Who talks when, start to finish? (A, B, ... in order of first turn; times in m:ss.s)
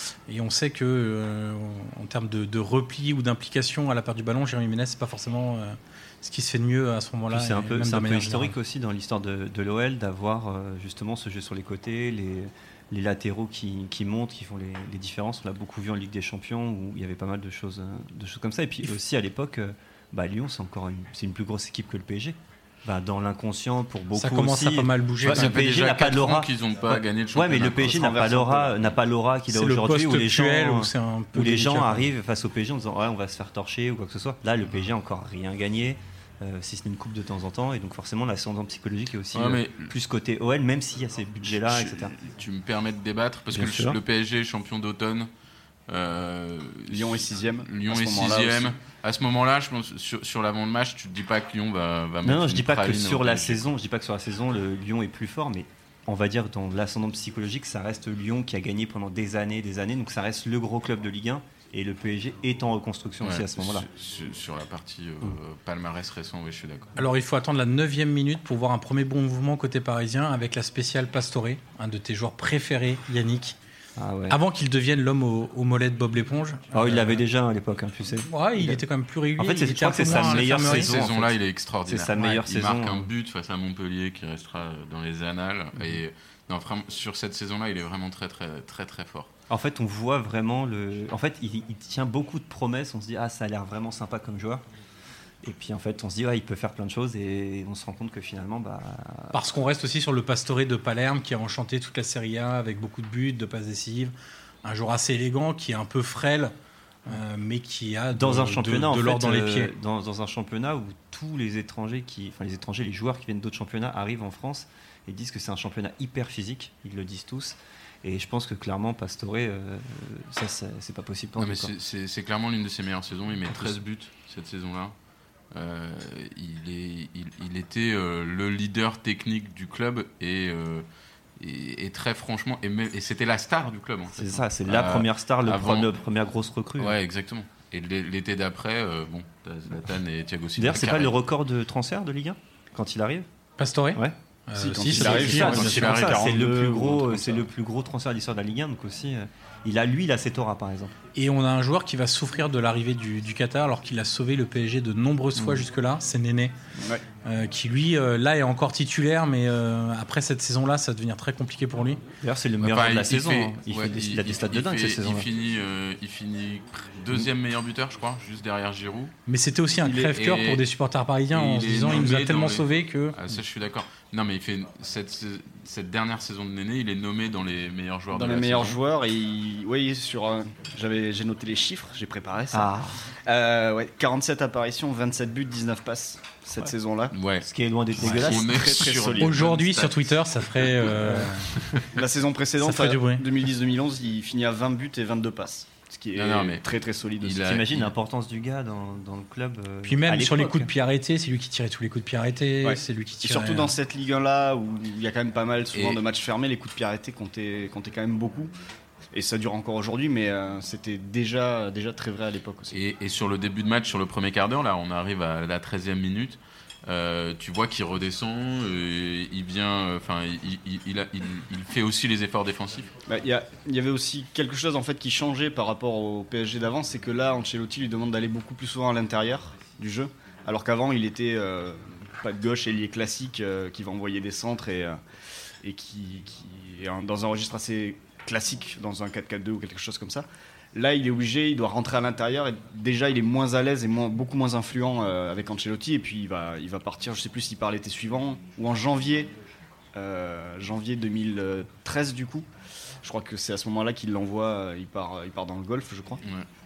0:00.3-0:08.5 A
0:07.3-0:42.1 B
0:24.2-0:25.6 A
0:25.2-0:28.1 C
0:27.8-0:28.8 D
0:29.5-0:32.1 A
0:39.3-0:39.9 C
0:41.7-0:45.3 C
0:43.5-0:44.0 B
0:45.9-0:53.6 C
0:46.9-0:48.7 D
0:52.2-1:03.9 B
1:03.2-1:06.9 C
1:07.0-1:13.6 A
1:14.0-1:14.4 B
1:14.3-1:17.2 A
1:16.7-1:18.8 B
1:18.3-1:21.0 A
1:19.4-1:23.1 B
1:20.1-1:29.3 C
1:29.5-1:34.6 B
1:35.4-1:39.4 B
1:39.3-1:46.5 A
1:47.1-1:49.7 A
1:48.1-2:01.7 B
2:01.4-2:04.9 C
2:03.5-2:03.8 B
2:05.5-2:10.9 C
2:11.4-2:15.9 C
2:14.2-2:17.0 B
2:16.8-2:21.2 C
2:20.6-2:23.3 B
2:23.6-2:26.0 A
2:24.6-2:27.5 D
2:24.8-2:30.9 B
2:25.1-2:26.3 C
2:31.2-2:36.5 A
2:35.4-2:35.7 B
2:36.8-2:37.0 D
2:37.2-2:42.0 A
2:42.2-2:45.3 B
2:42.6-2:49.1 C
2:49.3-2:53.2 A
2:49.8-2:50.1 D
2:50.0-2:50.6 C
2:51.3-2:58.8 C
2:58.1-3:02.7 D
3:02.5-3:03.0 B
3:03.2-3:07.2 D
3:07.1-3:10.0 C
3:07.4-3:08.7 B
3:08.0-3:09.6 D
3:09.2-3:11.5 A
3:11.0-3:11.3 B
3:11.9-3:17.4 D
3:12.6-3:13.2 A
3:16.2-3:16.6 C
3:17.2-3:17.9 C
3:17.4-3:20.7 B
3:19.8-3:23.7 A
3:22.6-3:28.5 D
3:25.7-3:26.0 C
3:29.1-3:32.8 D
3:32.7-3:42.9 C
3:43.1-3:55.0 D
3:55.6-4:09.3 D
4:10.0-4:12.5 D
4:13.0-4:16.2 D